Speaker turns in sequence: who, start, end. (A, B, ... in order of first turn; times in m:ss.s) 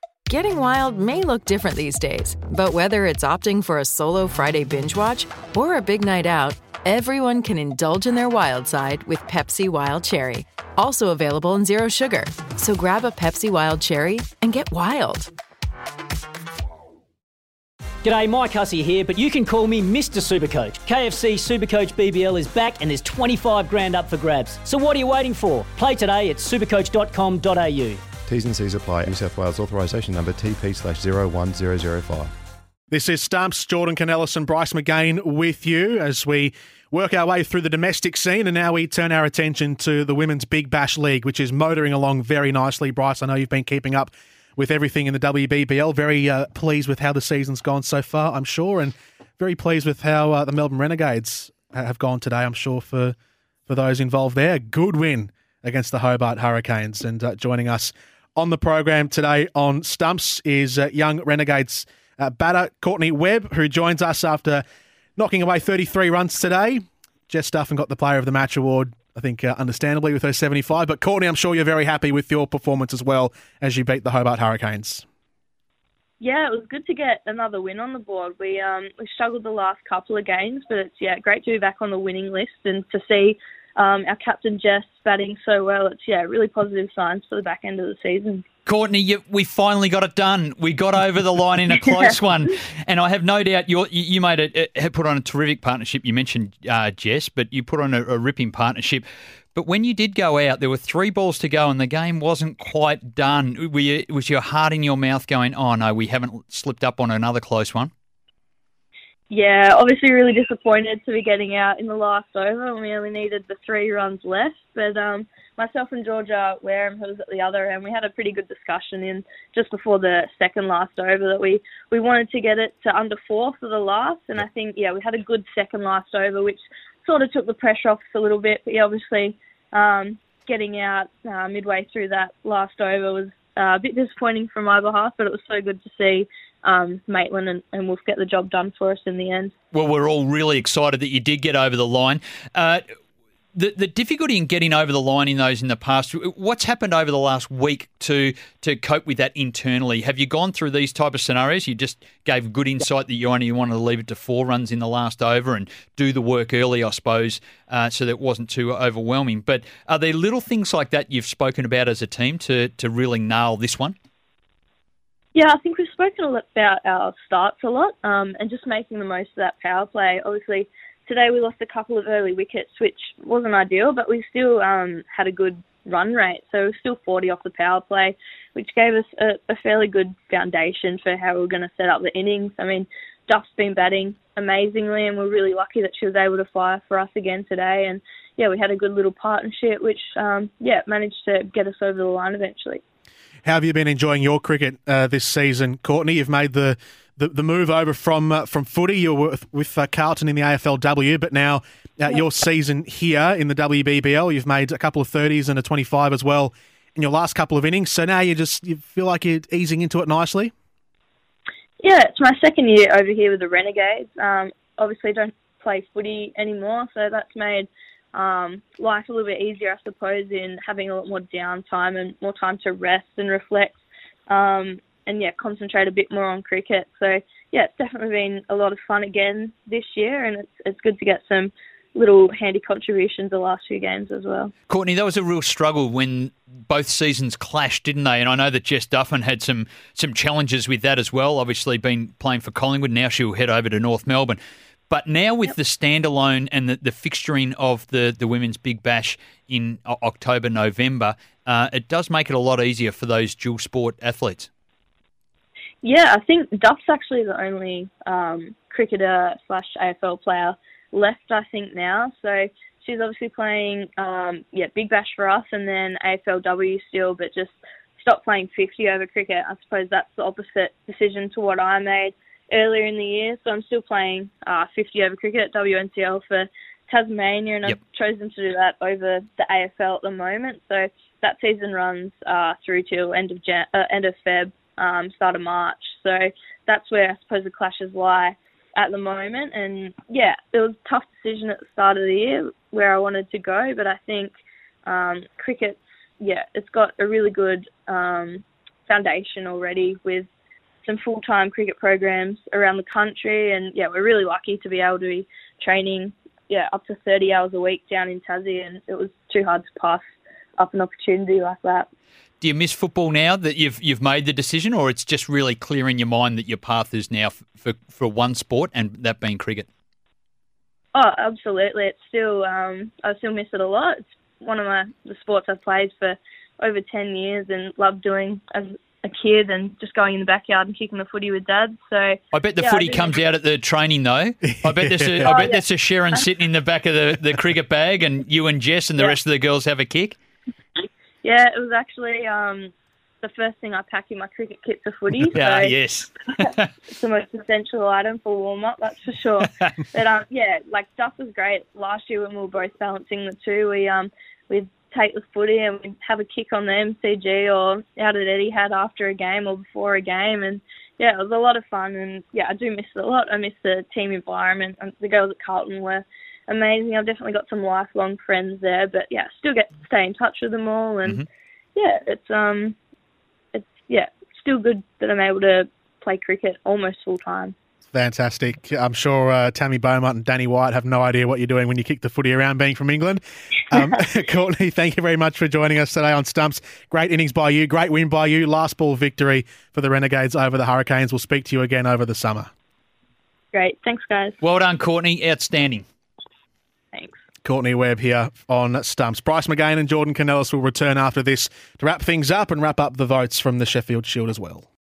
0:00.3-0:15.3 A
0:18.0-0:28.0 B
0:28.2-0:32.3 C
0:32.9-0:53.1 D
0:53.7-1:04.6 D
1:05.2-1:15.0 D
1:16.2-1:28.4 E
1:28.6-1:47.9 F
1:49.3-2:19.5 E
2:19.7-2:22.8 F
2:23.5-2:44.0 F
2:45.3-3:12.8 E
3:13.4-3:30.5 D
3:31.8-3:54.5 E
3:54.7-4:14.5 F
4:15.8-5:00.3 E
5:00.8-5:11.9 E
5:12.4-5:19.7 F
5:20.9-5:33.2 E
5:32.3-5:40.2 F
5:34.5-5:35.3 D
5:35.2-5:36.2 E
5:41.2-5:45.7 E
5:45.2-5:46.7 F
5:46.9-6:11.2 E
6:11.7-6:12.7 E
6:13.5-6:17.5 E
6:17.9-6:32.5 D
6:33.5-6:34.4 E
6:34.4-6:35.8 F
6:36.9-6:37.2 E
6:37.4-6:44.7 D